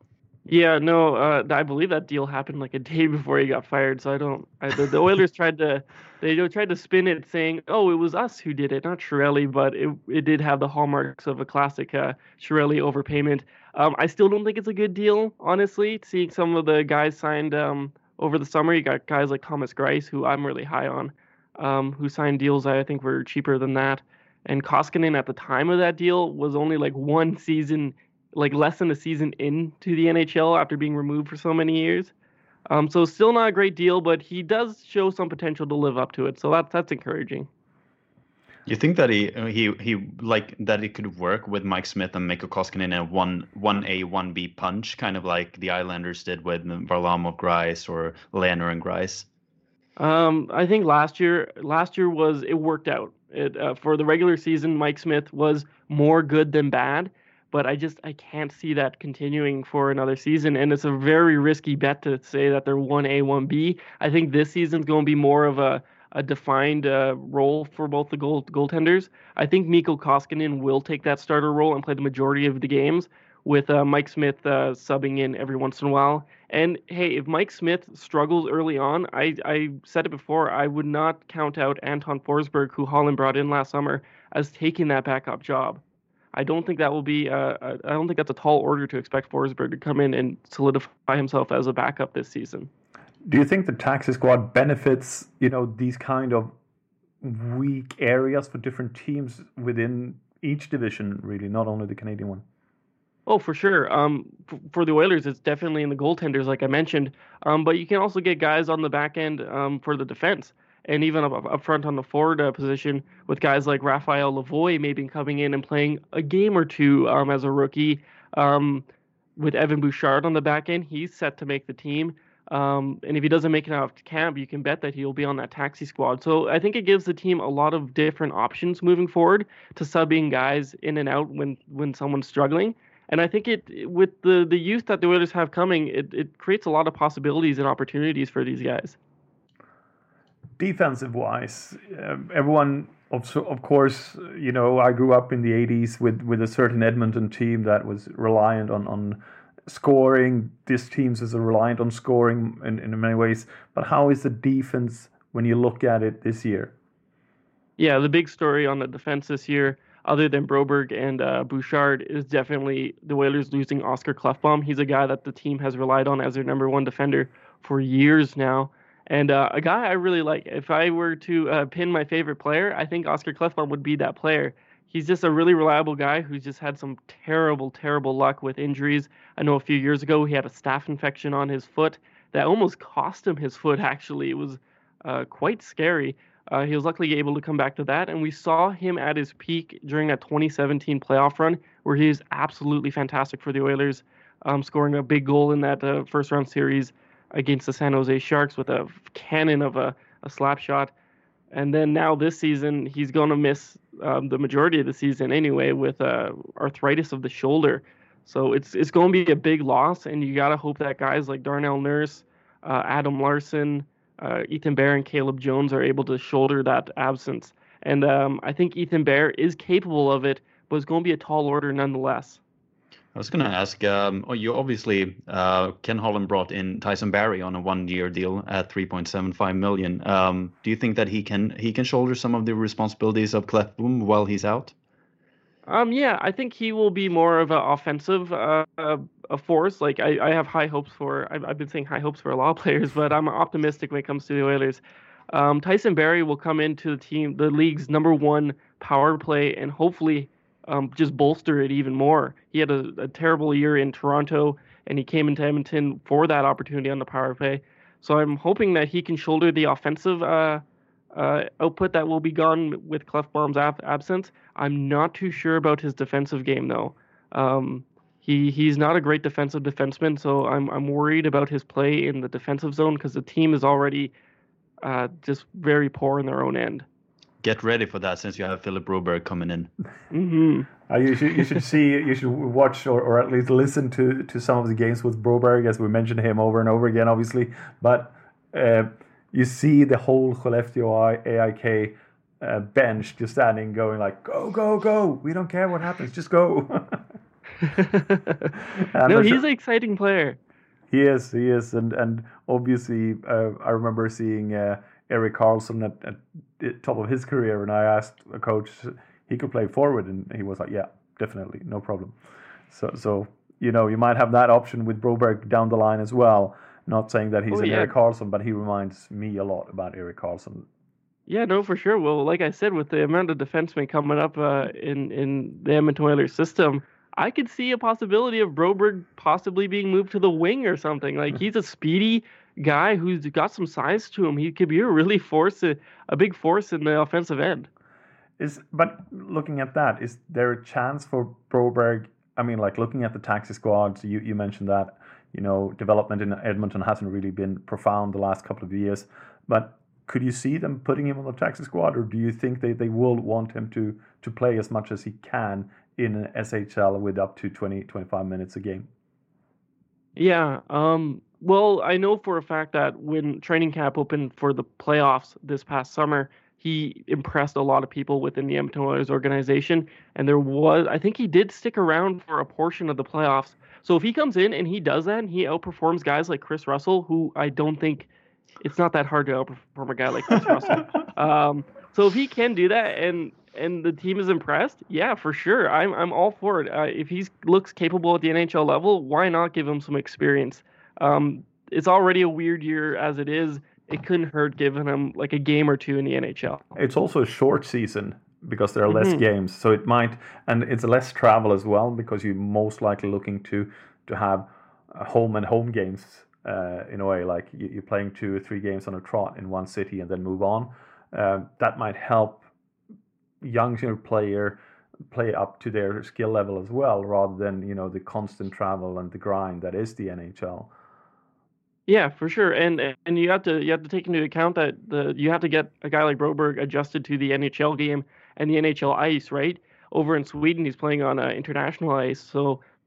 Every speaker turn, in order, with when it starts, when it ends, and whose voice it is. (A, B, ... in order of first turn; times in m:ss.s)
0:00.4-0:32.1 A
0:32.7-0:37.5 A
0:38.6-0:49.2 B
0:50.0-1:25.8 A
1:26.3-1:32.7 A
1:33.2-1:36.5 C
1:37.2-1:42.4 C
1:43.3-1:58.8 A
1:59.4-2:19.0 A
2:20.6-2:36.7 C
2:37.8-3:20.9 A
3:21.5-3:42.4 A
3:43.1-3:54.7 B
3:55.7-4:20.6 A
4:21.1-4:34.1 A
4:34.8-4:36.8 A
4:37.4-4:39.7 B
4:40.1-4:40.7 A
4:40.9-4:57.0 C
4:57.7-4:58.5 A
4:58.8-4:59.4 C
4:59.0-5:00.4 A
5:00.9-5:12.2 C
5:12.7-5:20.7 C
5:17.5-5:17.9 A
5:21.3-5:37.7 A
5:38.4-5:58.9 C
6:00.2-6:18.1 A
6:18.6-6:36.6 A
6:36.8-6:52.4 C
6:38.9-6:39.2 A
6:53.4-7:00.7 C
7:01.9-7:12.6 A